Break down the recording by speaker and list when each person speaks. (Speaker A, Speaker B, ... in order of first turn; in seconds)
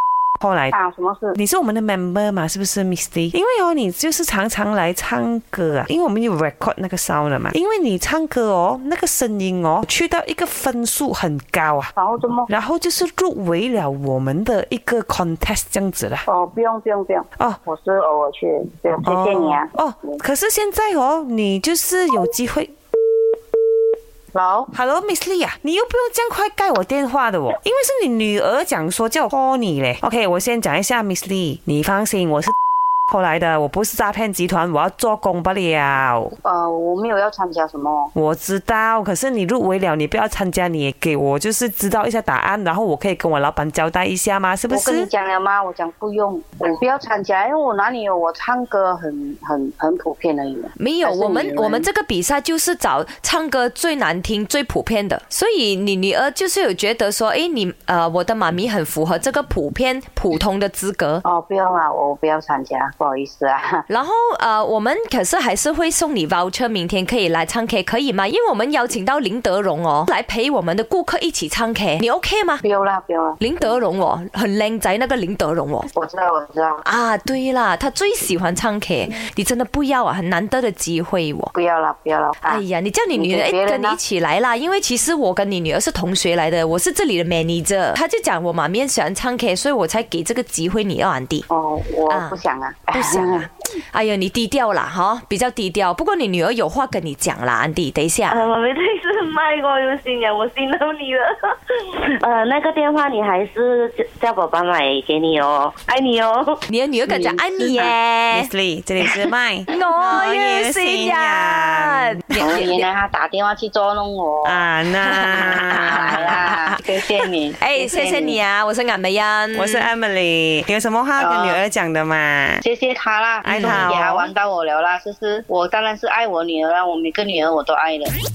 Speaker A: 0.4-0.8, 1.4-11.9, 12.5-16.2, 19.1-22.7, 24.7-32.5, 33.1-36.4, 38.1-45.1, 108.3-112.2, 114.4-116.5, 119.5-122.6, 123.4-124.3
Speaker B: 0.7-1.4, 11.9-12.5, 16.3-20.2, 24.3-24.7, 36.4-38.1, 44.7-51.9, 61.2-63.8, 72.6-73.8, 75.9-76.8, 81.5-84.0, 91.5-93.5, 112.4-114.7, 115.3-118.4, 121.2-121.6, 122.6-128.1
Speaker C: 50.8-61.2, 63.9-72.6, 73.4-75.9, 76.8-81.5, 82.4-91.5, 92.1-92.4, 92.9-98.4, 106.7-112.9, 115.1-119.9, 123.5-123.9
Speaker D: 98.3-106.6